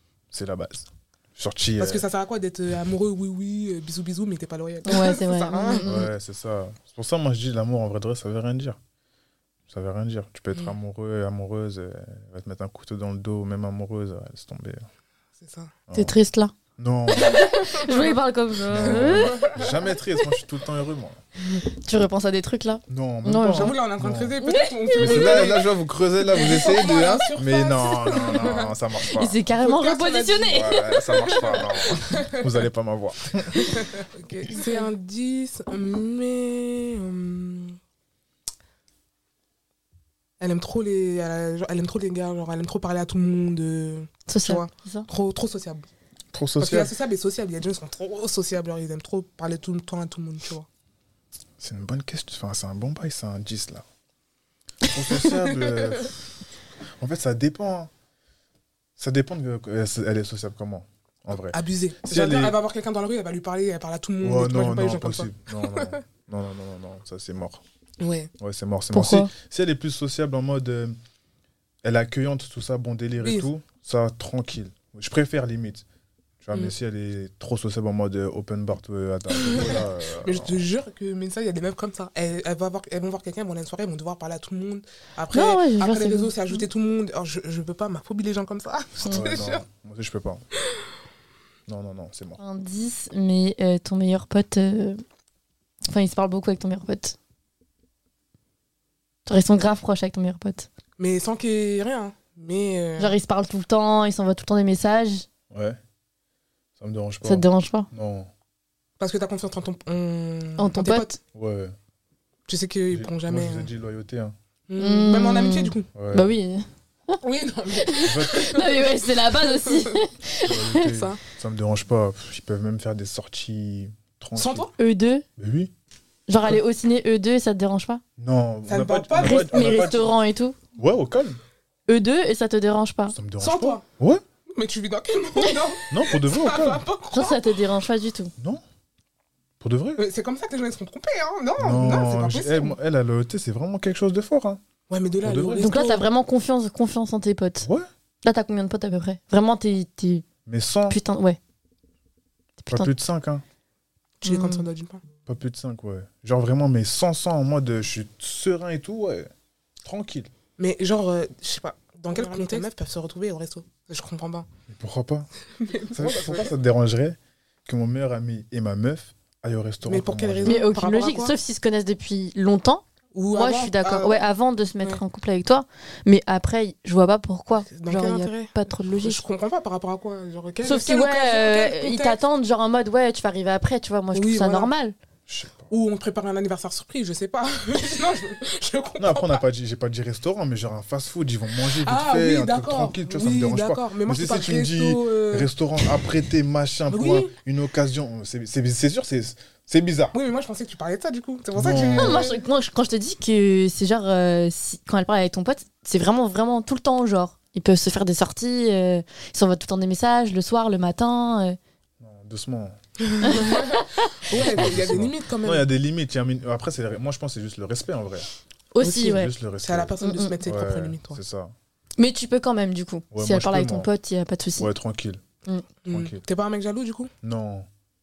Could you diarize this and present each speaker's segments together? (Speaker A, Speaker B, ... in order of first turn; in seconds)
Speaker A: 0.3-2.0, 5.8-8.8, 9.7-14.8, 15.9-16.1, 16.8-17.4, 18.7-21.2, 22.9-24.3, 25.0-29.4, 30.5-33.7, 46.3-46.9, 51.6-53.8, 54.9-56.2, 57.0-57.9, 59.0-62.6, 64.2-67.6, 68.4-71.0, 71.8-75.8, 76.4-80.7, 89.0-90.4, 91.7-92.4, 105.5-105.8, 106.8-108.3, 111.3-111.7, 112.9-114.3, 115.9-116.3, 118.0-118.6, 120.4-124.7, 125.4-125.7, 128.2-130.1, 130.8-131.4, 133.1-134.2, 135.9-136.8, 139.6-140.0, 141.6-144.6, 145.2-145.7, 150.4-151.0, 152.7-153.4, 155.2-159.3, 159.8-160.3, 164.7-165.3, 165.9-170.6, 185.3-185.7, 189.0-200.1, 201.5-202.3, 212.0-212.8, 214.3-218.3, 219.0-221.5, 223.1-223.9, 224.6-225.2, 225.9-226.2, 227.2-227.7
Speaker B: 1.8-5.9, 15.4-15.7, 17.4-18.1, 18.7-19.8, 23.5-25.7, 26.3-28.7, 29.6-32.5, 33.6-37.8, 40.4-45.9, 46.6-50.7, 55.1-56.1, 61.4-66.0, 68.0-68.3, 73.2-73.5, 79.3-89.6, 101.0-103.2, 109.0-111.2, 112.5-113.7, 114.7-115.9, 117.2-120.0, 120.8-121.2, 124.3-124.7, 128.7-130.1, 133.4-133.8, 134.5-137.6, 140.0-142.8, 144.9-146.1, 154.2-155.0, 160.6-164.5, 165.6-166.6, 169.8-171.3, 173.1-175.0, 177.6-182.2, 184.1-184.7, 185.7-189.4, 191.6-196.1, 196.9-197.3, 200.1-202.4, 213.1-215.7, 218.8-221.2, 225.8-227.1
Speaker C: 4.8-6.1, 15.9-16.5, 17.2-19.4, 21.6-23.8, 24.4-25.5, 28.1-28.4, 29.1-31.6, 34.5-34.9, 44.3-45.1, 68.9-69.3, 85.3-86.6, 92.4-95.0, 95.9-97.2, 99.2-100.7, 103.0-105.2, 107.2-107.9, 110.6-111.2, 114.8-116.7, 117.8-120.8, 124.8-125.2, 126.3-128.0, 129.2-130.6, 131.9-133.2, 137.1-138.3, 145.6-147.7, 148.2-150.2, 150.9-151.4, 152.6-152.9, 154.2-154.6, 162.1-162.7, 170.4-179.2, 180.6-184.9, 201.9-211.6, 213.2-214.1, 218.7-219.3, 220.0-220.4, 222.0-224.7